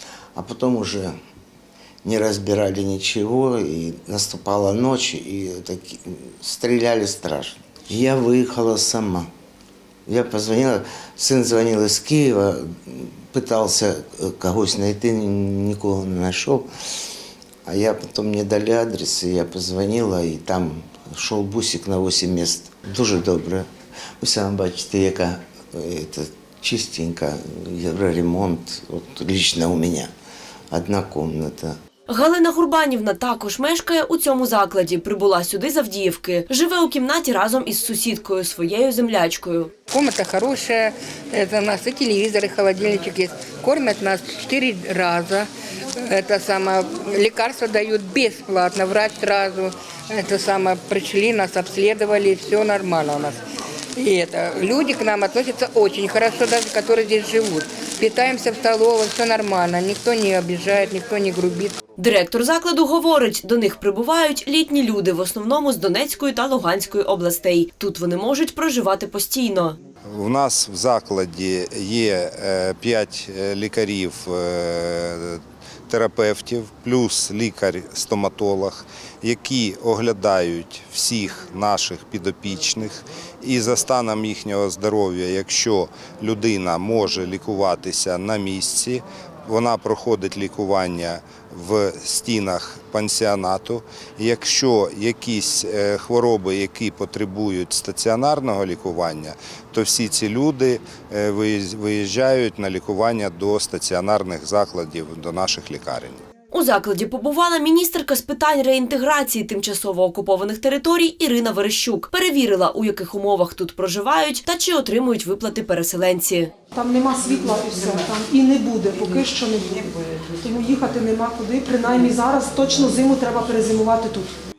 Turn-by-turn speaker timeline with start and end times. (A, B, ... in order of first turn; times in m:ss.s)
0:00.3-0:01.1 A
0:02.0-0:09.3 A
0:10.1-0:16.7 A
0:17.6-0:23.6 A
0:24.2-0:30.1 A
0:30.7-0:31.7 A
0:32.1-0:39.7 B
0:39.9-0:53.4 C
0:54.0-1:01.8 C
1:02.0-1:09.8 B
1:10.1-1:46.2 D
1:46.5-1:56.5 B
1:56.7-1:59.9 E
2:00.4-2:04.3 E